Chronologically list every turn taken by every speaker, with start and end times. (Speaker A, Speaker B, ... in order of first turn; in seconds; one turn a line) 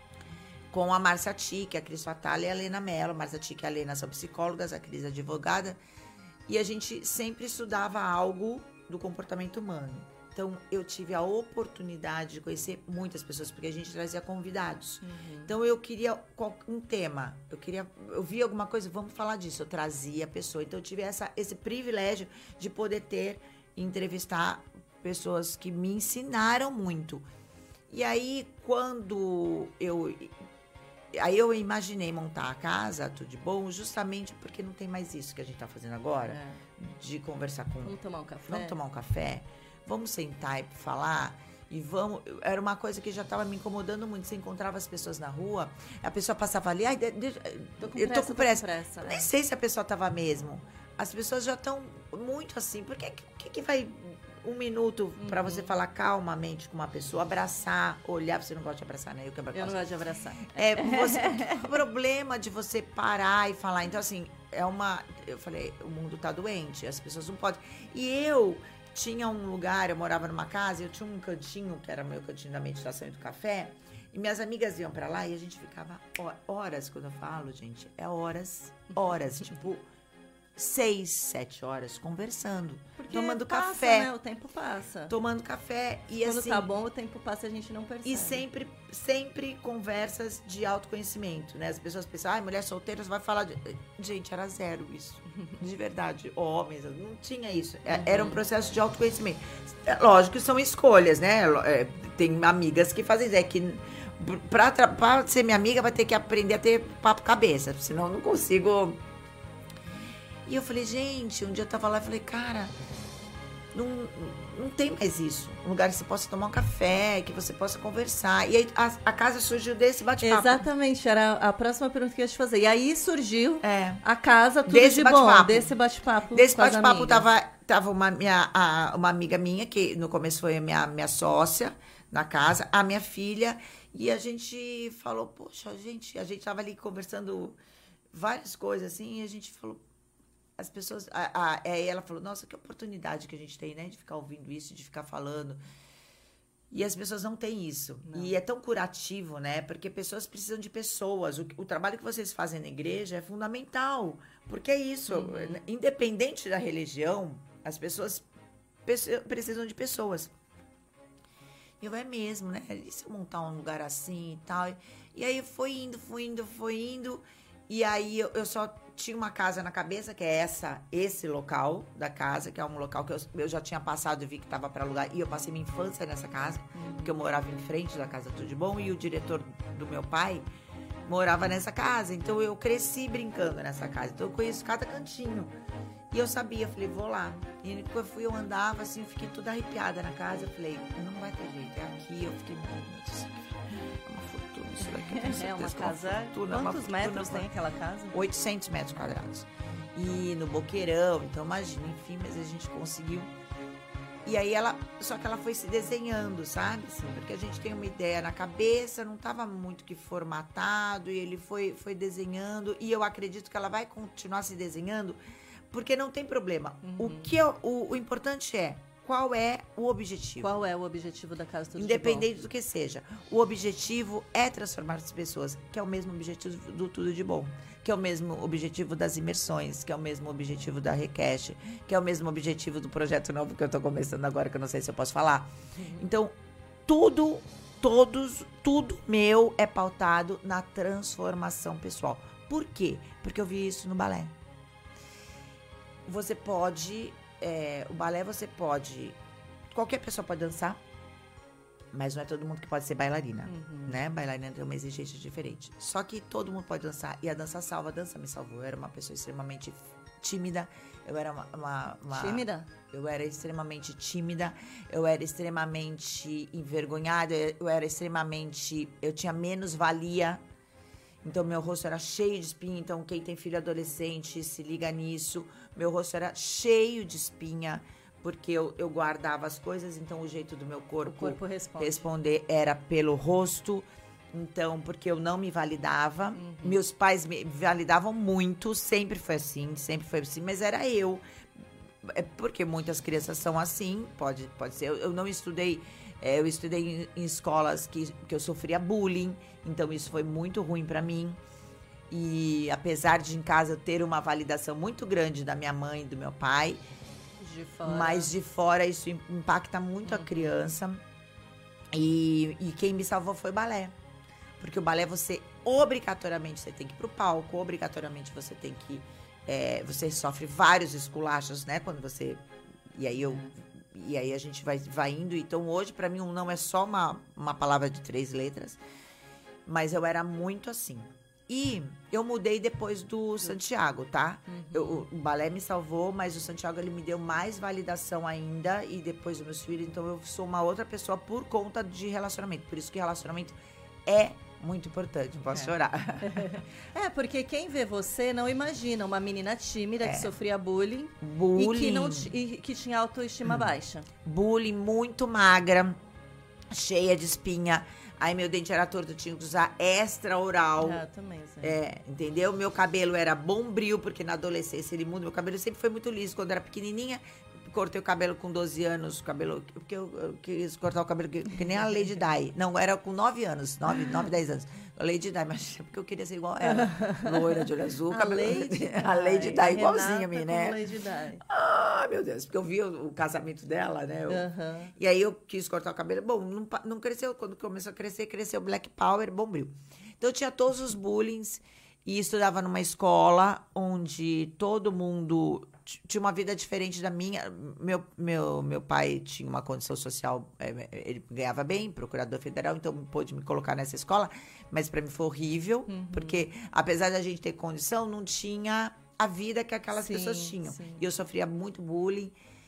Speaker A: 0.7-5.8
Speaker A: 6.5-27.2
Speaker B: 15.0-15.5
Speaker A: 27.9-30.4
Speaker A: 31.1-38.0
Speaker B: 36.3-36.6
Speaker B: 37.8-38.8
Speaker A: 38.5-59.8
Speaker B: 47.8-49.3
Speaker B: 55.2-55.7
Speaker B: 59.5-61.7
Speaker A: 60.4-79.9
Speaker A: 80.6-84.1
Speaker B: 83.0-85.2
Speaker A: 85.1-86.7
Speaker B: 86.2-88.5
Speaker A: 88.0-109.0
Speaker B: 97.9-98.4
Speaker A: 110.5-112.7
Speaker A: 113.7-120.7
Speaker B: 120.2-127.3
Speaker A: 123.6-124.0
Speaker A: 124.7-125.7
Speaker A: 126.3-137.6
Speaker A: 138.1-139.8
Speaker A: 140.6-145.6
Speaker A: 146.7-158.3
Speaker B: 148.1-148.4
Speaker B: 155.1-155.6
Speaker A: 158.9-160.3
Speaker A: 161.8-180.5
Speaker B: 176.8-177.2
Speaker A: 181.1-185.5
Speaker A: 186.1-197.5
Speaker B: 195.0-198.2
Speaker A: 198.1-203.3
Speaker A: 204.2-215.2
Speaker A: 215.7-220.5
Speaker B: 216.8-217.3
Speaker B: 220.4-222.3
Speaker A: 221.8-236.3
Speaker B: 235.8-236.1
Speaker A: 236.9-244.3
Speaker A: 246.1-249.2
Speaker A: 249.7-250.8
Speaker A: 251.9-270.4
Speaker B: 253.5-254.0
Speaker B: 262.1-262.7
Speaker A: 271.2-291.2
Speaker B: 281.0-282.0
Speaker B: 286.4-286.8
Speaker A: 292.0-301.4
Speaker A: 302.1-306.8
Speaker B: 307.4-308.3
Speaker A: 307.8-311.0
Speaker B: 310.1-310.6
Speaker A: 311.9-313.9
Speaker A: 314.6-328.8
Speaker B: 323.2-323.5
Speaker A: 329.7-346.6
Speaker B: 334.5-335.1
Speaker B: 345.5-354.1
Speaker A: 350.0-350.4
Speaker A: 351.2-352.3
Speaker A: 353.4-353.7
Speaker A: 354.2-356.0
Speaker A: 356.7-361.0
Speaker B: 360.8-361.8
Speaker A: 361.6-380.9
Speaker B: 376.6-381.4
Speaker A: 381.4-412.4
Speaker B: 384.3-384.9
Speaker B: 405.9-406.4
Speaker B: 410.0-411.1